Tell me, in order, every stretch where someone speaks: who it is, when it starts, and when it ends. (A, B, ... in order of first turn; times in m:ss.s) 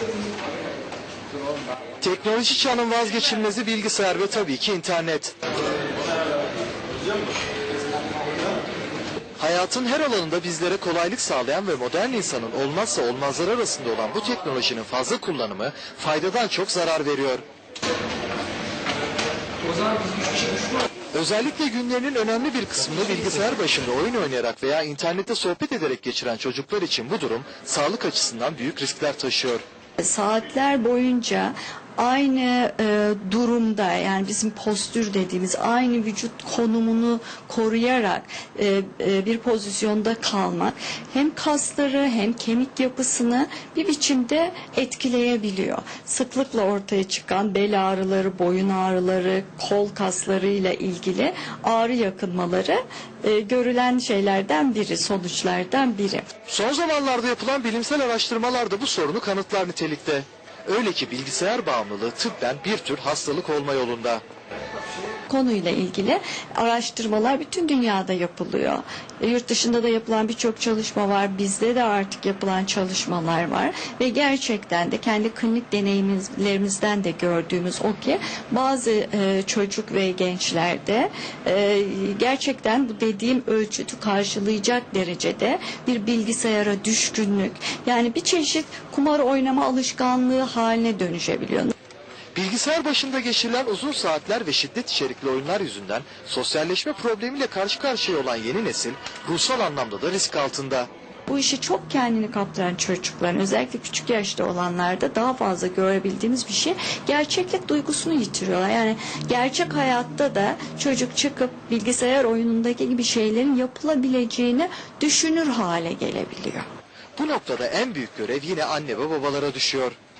0:02.0-0:05.3 A
0:09.4-0:17.4 A
0:21.1-0:29.6 A
0:30.0-0:56.3 B
0:56.5-1:04.2 A
1:05.3-1:31.7 B
1:32.3-1:40.9 A
1:41.3-1:56.7 B
1:57.2-2:00.0 A